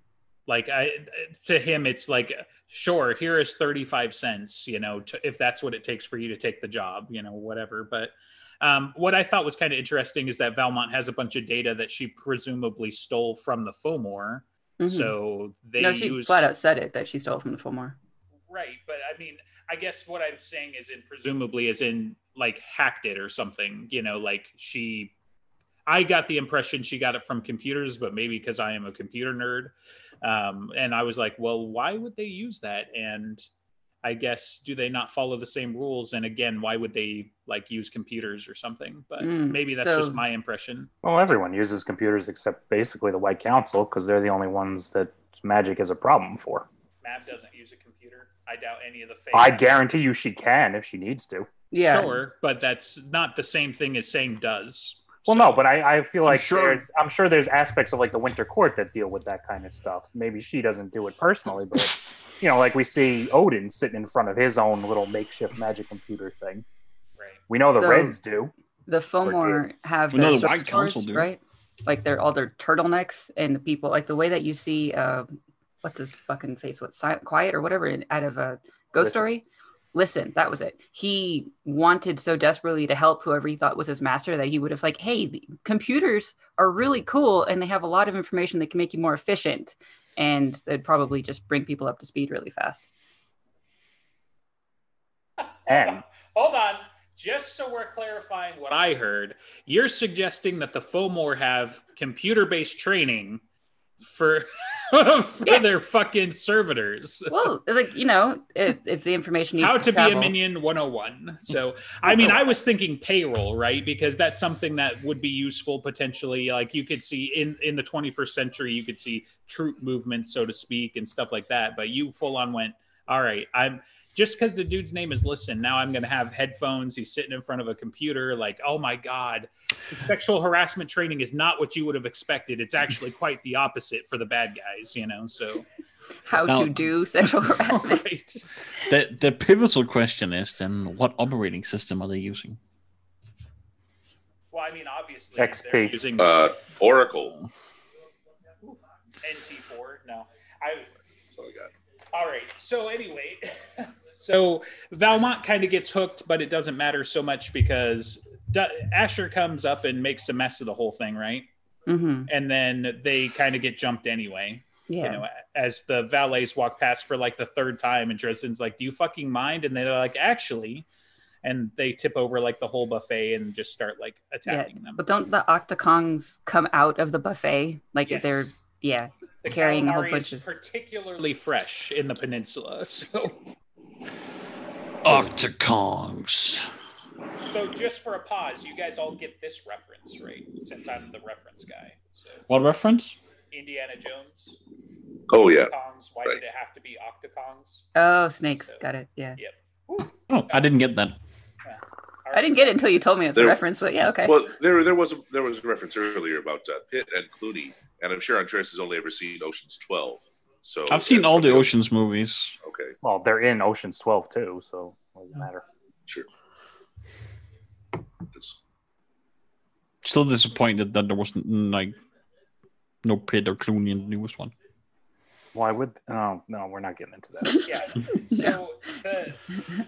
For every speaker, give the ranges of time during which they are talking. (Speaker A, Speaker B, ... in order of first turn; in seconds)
Speaker A: 0.5-16.5, 18.5-25.1, 25.9-33.5, 34.0-40.9, 47.0-49.7, 51.8-55.6, 56.3-56.8, 95.4-103.4, 104.0-107.5, 109.6-135.7, 137.4-138.4, 144.5-146.6, 148.6-150.9, 152.1-161.5, 162.3-170.9, 171.4-175.0, 178.1-178.5, 179.4-183.4, 187.5-192.4, 193.5-194.6, 195.5-197.9, 199.4-200.7, 201.6-202.9, 227.7-229.5
Speaker B: 14.8-15.2, 15.8-18.0, 39.2-40.2, 51.7-52.2, 67.8-68.2, 68.9-92.9, 107.3-110.3, 136.3-138.1, 161.9-162.3, 164.9-165.2, 174.5-180.4, 197.9-199.4, 202.3-204.4, 228.2-228.5
Speaker C: 41.0-46.7, 49.3-51.5, 55.3-66.7, 67.5-68.5, 69.2-69.6, 95.7-96.0, 145.4-146.0, 213.0-215.7, 225.5-227.8
Speaker D: 70.1-71.3, 136.5-136.9, 138.9-142.6, 185.0-186.7, 192.5-193.2, 200.3-201.2, 210.9-212.6, 220.0-222.0, 223.0-224.5
Speaker E: 146.2-147.4, 151.3-151.7, 195.3-195.7, 204.2-211.7, 212.6-213.0, 218.3-218.6